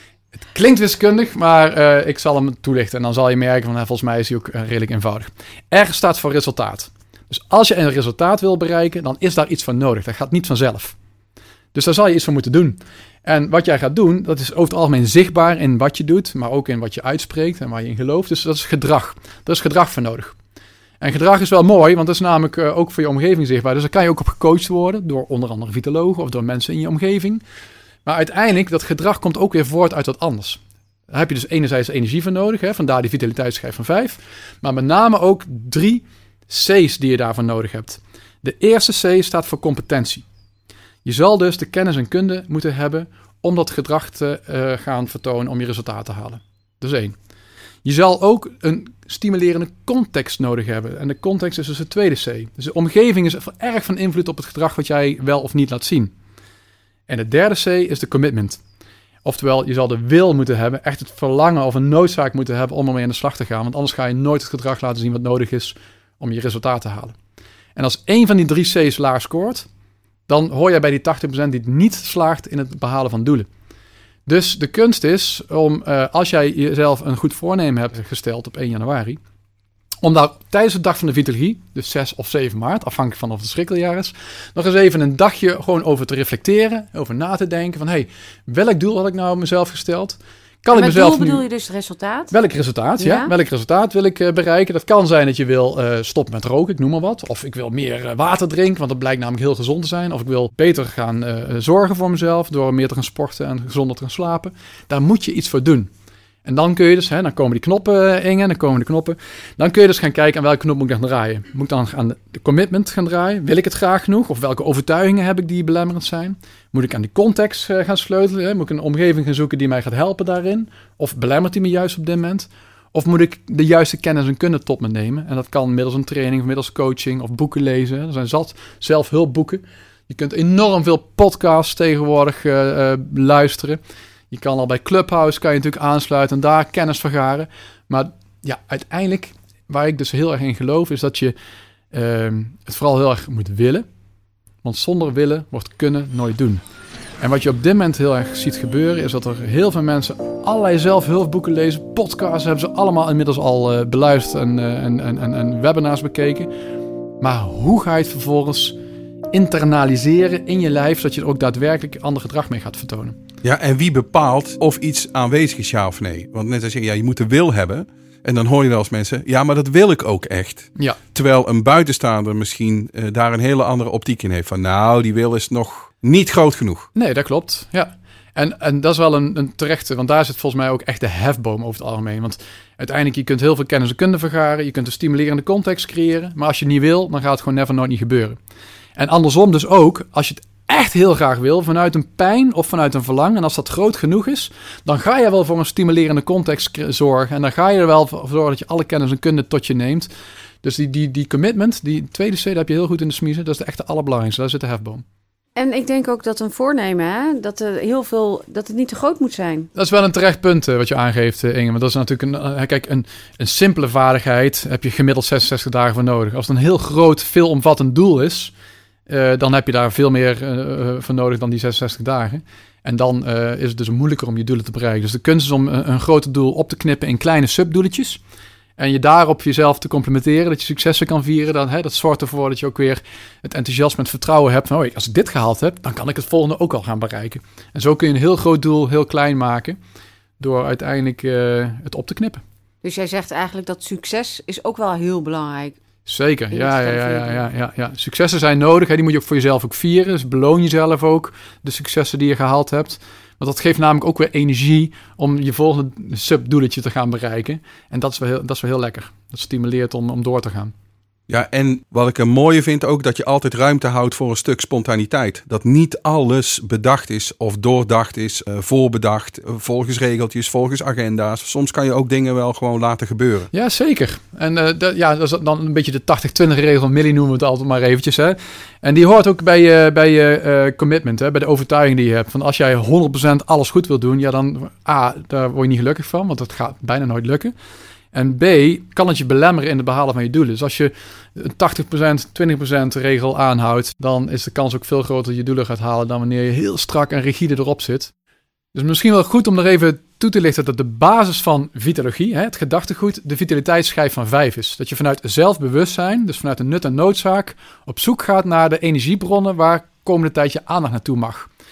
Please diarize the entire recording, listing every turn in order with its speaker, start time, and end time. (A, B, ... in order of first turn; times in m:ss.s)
0:00.4-0:11.0 A
0:11.7-0:20.3 A
0:21.0-0:27.4 A
0:28.0-0:40.2 A
0:41.0-0:47.2 A
0:47.8-0:56.1 A
0:57.1-0:58.6 A
0:59.2-1:07.2 A
1:07.8-1:09.7 A
1:10.3-1:13.5 A
1:14.2-1:19.2 A
1:20.0-1:31.4 A
1:30.7-1:32.3 B
1:32.3-1:45.9 A
1:33.0-1:33.3 B
1:46.4-2:13.8 A
2:14.3-2:21.3 A
2:21.9-2:23.8 A
2:24.6-2:26.6 A
2:27.2-2:36.5 A
2:37.2-2:38.8 A
2:39.3-2:43.2 A
2:43.4-2:56.9 C
2:56.9-3:08.4 A
3:09.0-3:20.1 A
3:20.6-3:25.0 A
3:25.6-3:29.7 B
3:29.7-3:38.5 A
3:39.1-3:48.2 A
3:48.8-3:59.8 A
4:00.4-4:02.4 A
4:02.8-4:05.8 B
4:06.0-4:20.7 A
4:06.5-4:07.4 B
4:21.3-4:33.5 C
4:33.5-4:47.5 A
4:48.1-4:58.1 A
4:58.7-5:11.5 A